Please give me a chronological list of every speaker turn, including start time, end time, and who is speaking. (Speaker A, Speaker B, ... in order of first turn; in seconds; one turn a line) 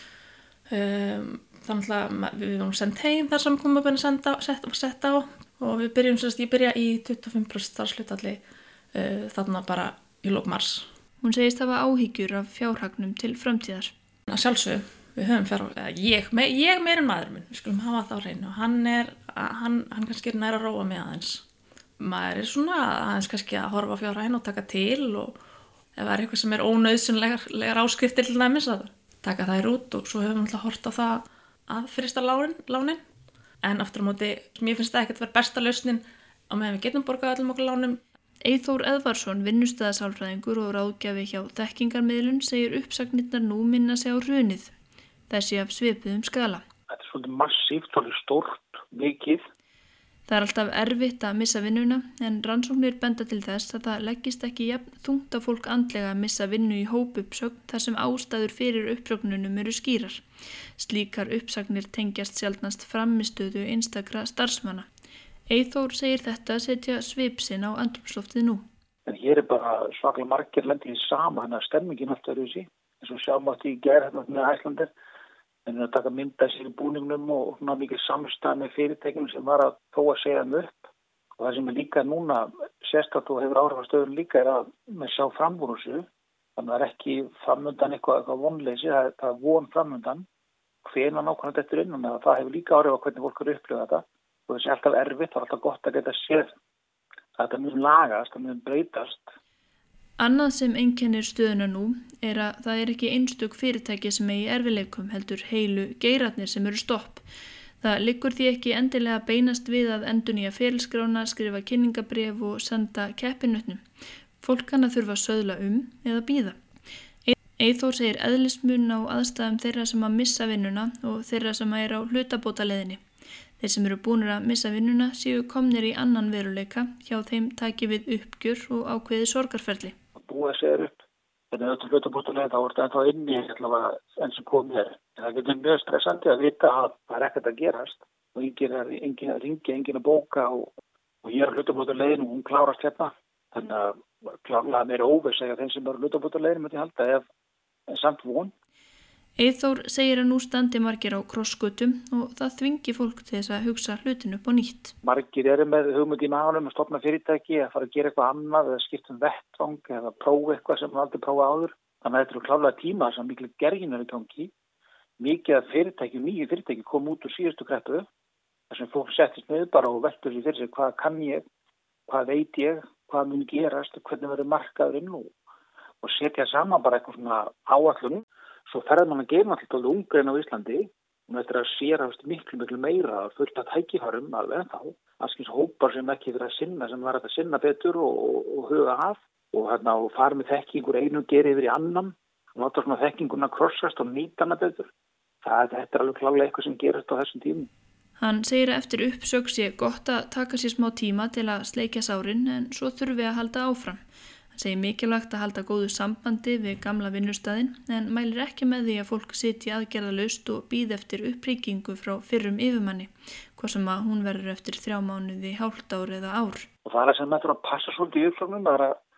Speaker A: 0.7-8.4
Speaker A: 8.9-10.9
Speaker B: 11.2-13.9
Speaker A: 14.3-21.4
Speaker A: 22.0-25.4
Speaker A: 25.9-33.0
Speaker A: 33.6-38.0
Speaker B: 38.4-44.7
Speaker B: 45.3-46.6
Speaker C: 46.9-49.4
Speaker B: 50.3-60.2
Speaker B: 60.8-64.9
Speaker B: 65.5-68.7
Speaker C: 69.1-74.9
Speaker C: 75.7-80.9
Speaker C: 81.4-90.2
Speaker C: 90.8-96.5
Speaker C: 97.4-99.3
Speaker B: 100.2-107.2
Speaker B: 107.8-113.8
Speaker B: 114.4-116.6
Speaker B: 117.2-123.0
Speaker B: 123.6-129.9
Speaker C: 130.2-140.7
Speaker C: 141.2-147.2
Speaker C: 147.9-148.5
Speaker B: 149.4-154.9
Speaker C: 155.0-164.5
Speaker C: 165.2-168.1
Speaker C: 168.7-171.4
Speaker C: 172.1-175.3
Speaker C: 176.0-194.9
Speaker C: 195.4-197.7
Speaker B: 198.2-204.0
Speaker B: 204.5-216.7
Speaker C: 216.8-219.0